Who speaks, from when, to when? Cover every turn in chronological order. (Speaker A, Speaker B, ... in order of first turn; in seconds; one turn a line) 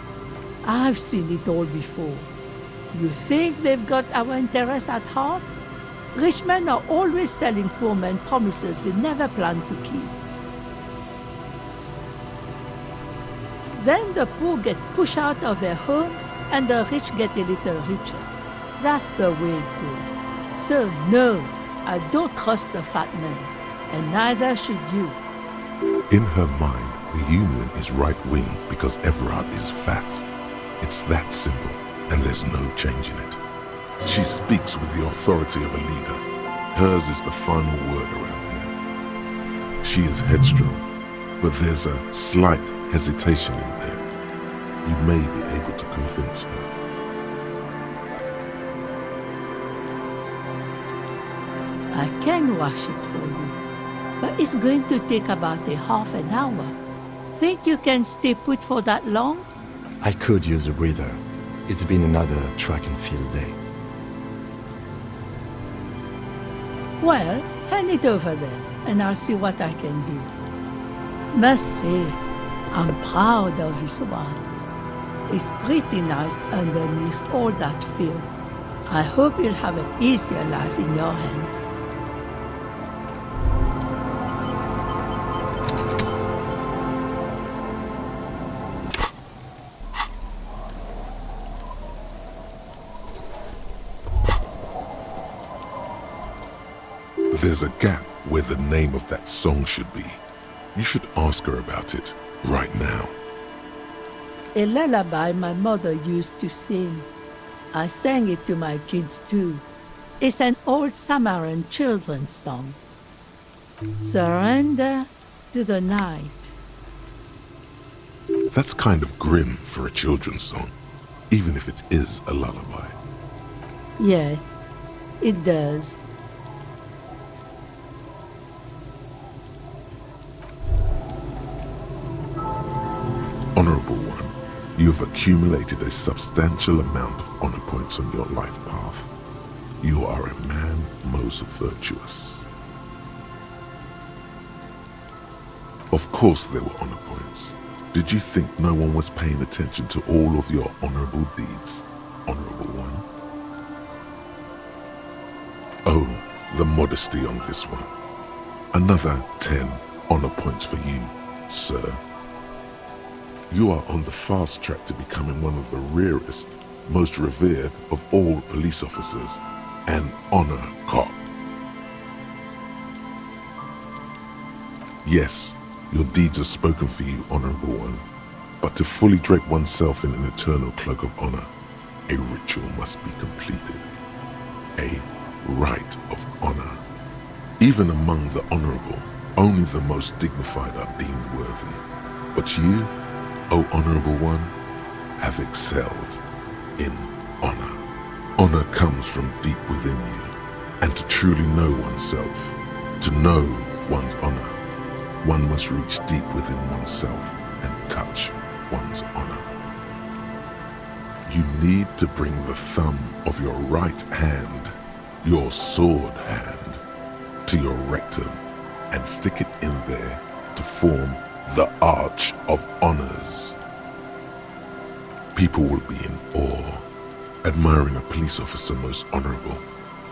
Speaker A: 0.6-2.3
Speaker A: 2.9-5.5
Speaker A: 6.1-10.2
Speaker A: 13.7-25.2
Speaker B: 26.1-30.2
Speaker B: 30.8-33.4
Speaker B: 34.0-38.7
Speaker B: 39.8-40.8
Speaker B: 41.4-44.0
Speaker B: 44.8-46.7
Speaker A: 51.9-53.6
Speaker A: 54.2-56.8
Speaker A: 57.3-59.5
Speaker C: 60.0-63.6
Speaker A: 67.0-70.3
Speaker A: 71.3-72.2
Speaker A: 72.7-74.5
Speaker A: 75.3-78.3
Speaker A: 78.9-81.7
Speaker B: 97.3-100.2
Speaker B: 100.7-103.1
Speaker A: 104.5-107.1
Speaker A: 107.7-109.6
Speaker A: 110.2-112.8
Speaker A: 114.0-116.5
Speaker B: 118.5-120.7
Speaker B: 121.3-123.0
Speaker A: 124.0-124.7
Speaker A: 125.2-126.0
Speaker B: 133.5-139.1
Speaker B: 139.8-142.4
Speaker B: 145.9-153.1
Speaker B: 155.8-157.9
Speaker B: 158.7-162.0
Speaker B: 163.5-171.3
Speaker B: 175.0-178.0
Speaker B: 178.6-181.5
Speaker B: 182.1-183.8
Speaker B: 184.8-186.8
Speaker B: 187.6-191.8
Speaker B: 192.3-192.9
Speaker B: 193.5-194.5
Speaker B: 195.2-196.2
Speaker B: 196.8-197.8
Speaker B: 198.4-204.6
Speaker B: 205.2-209.5
Speaker B: 211.2-216.8
Speaker B: 217.4-218.4
Speaker B: 218.9-223.6
Speaker B: 225.3-226.8
Speaker B: 227.4-229.6